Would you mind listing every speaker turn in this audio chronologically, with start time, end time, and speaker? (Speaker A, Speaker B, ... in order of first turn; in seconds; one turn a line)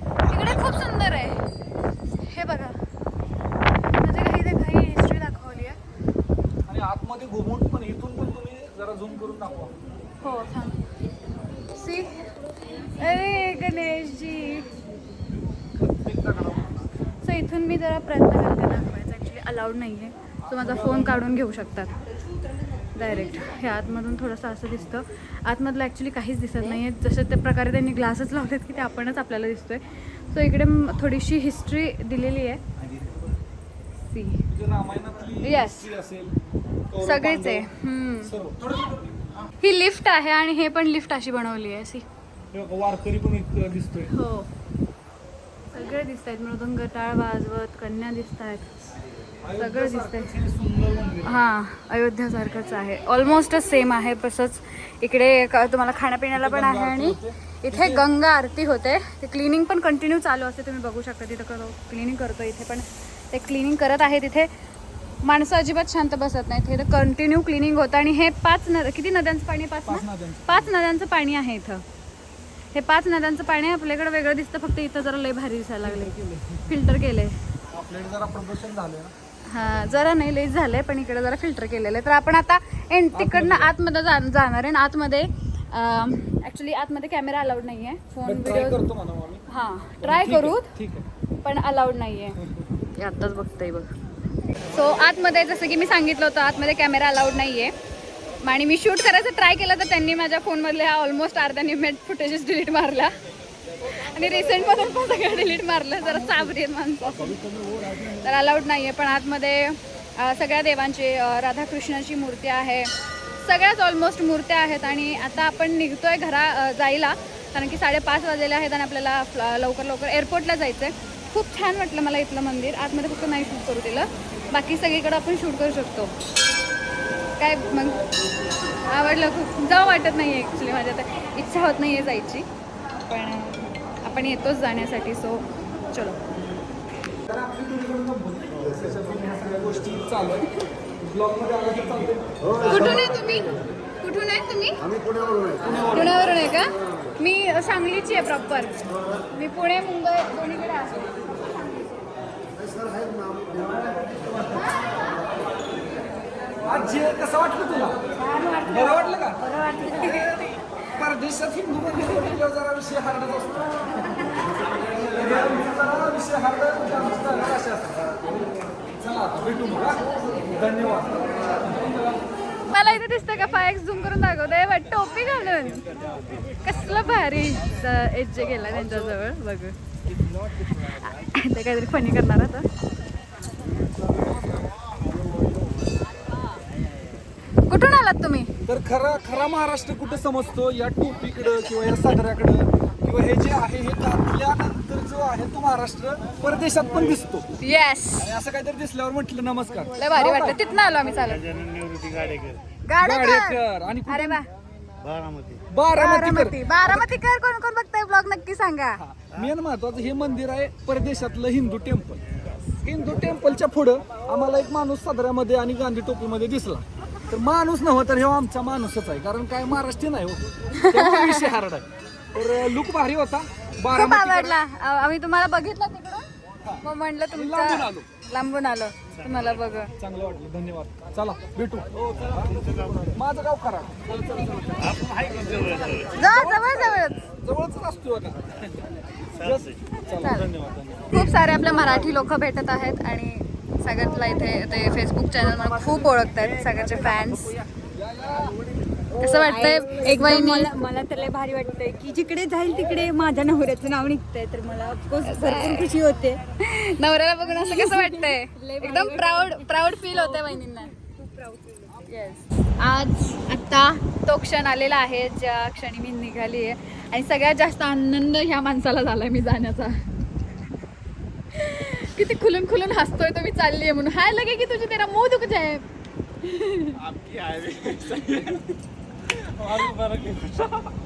Speaker A: 0.2-0.8
Speaker B: 0.2-1.4
Speaker B: 2.2-2.8
Speaker B: 4.0-5.8
Speaker A: 6.7-9.8
Speaker B: 10.2-10.8
Speaker B: 11.7-12.1
Speaker B: 12.9-14.7
Speaker A: 15.8-16.8
Speaker B: 17.2-21.9
Speaker A: 20.4-21.3
Speaker B: 22.9-32.6
Speaker A: 32.8-33.2
Speaker B: 34.1-34.4
Speaker A: 34.5-36.4
Speaker B: 35.4-35.9
Speaker A: 36.9-37.7
Speaker B: 37.0-38.3
Speaker A: 38.2-38.9
Speaker B: 39.6-42.1
Speaker A: 42.5-44.1
Speaker B: 44.1-44.5
Speaker B: 45.7-48.7
Speaker A: 49.4-51.4
Speaker B: 49.6-50.3
Speaker B: 51.2-64.5
Speaker A: 56.3-58.1
Speaker B: 65.2-71.8
Speaker A: 69.9-70.8
Speaker B: 72.7-77.4
Speaker A: 75.8-76.8
Speaker A: 77.7-79.1
Speaker B: 79.5-88.8
Speaker A: 83.1-83.8
Speaker A: 88.2-89.4
Speaker B: 89.5-90.8
Speaker A: 90.0-91.1
Speaker B: 91.4-92.4
Speaker A: 92.4-92.7
Speaker B: 92.9-93.9
Speaker B: 94.7-97.7
Speaker B: 98.4-103.1
Speaker B: 103.8-112.9
Speaker B: 113.4-126.1
Speaker B: 127.4-128.0
Speaker B: 128.8-132.5
Speaker B: 133.1-136.3
Speaker A: 137.3-140.5
Speaker A: 141.0-143.1
Speaker B: 142.6-144.8
Speaker A: 145.6-146.2
Speaker B: 145.7-151.9
Speaker B: 154.5-155.2
Speaker A: 156.6-158.0
Speaker C: 158.2-160.4
Speaker A: 158.7-159.4
Speaker B: 160.0-160.3
Speaker A: 160.9-163.8
Speaker A: 164.7-168.5
Speaker A: 169.0-172.2
Speaker B: 172.7-175.8
Speaker B: 176.6-179.8
Speaker B: 180.7-182.7
Speaker B: 187.7-188.5
Speaker A: 188.7-197.5
Speaker B: 197.6-198.3
Speaker A: 198.2-200.6
Speaker B: 200.0-201.5
Speaker D: 201.3-202.6
Speaker B: 202.8-204.5
Speaker A: 203.0-204.4
Speaker D: 205.0-205.6
Speaker A: 205.7-207.2
Speaker B: 206.0-209.0
Speaker A: 209.0-212.2
Speaker A: 212.8-224.6
Speaker B: 220.7-221.5
Speaker B: 223.9-226.2
Speaker A: 226.6-228.1
Speaker B: 226.8-229.9
Speaker A: 230.0-234.9
Speaker D: 232.5-233.0
Speaker D: 234.9-236.1
Speaker B: 236.1-237.2
Speaker A: 236.1-241.7
Speaker B: 240.1-240.5
Speaker B: 241.1-247.6
Speaker A: 247.9-248.6
Speaker B: 249.2-250.7
Speaker C: 249.2-256.4
Speaker B: 255.2-255.9
Speaker B: 256.6-260.9
Speaker C: 257.5-262.0
Speaker B: 262.1-270.0
Speaker B: 271.5-275.9
Speaker B: 276.4-277.1
Speaker A: 277.0-278.6
Speaker B: 278.0-278.6
Speaker A: 279.3-280.9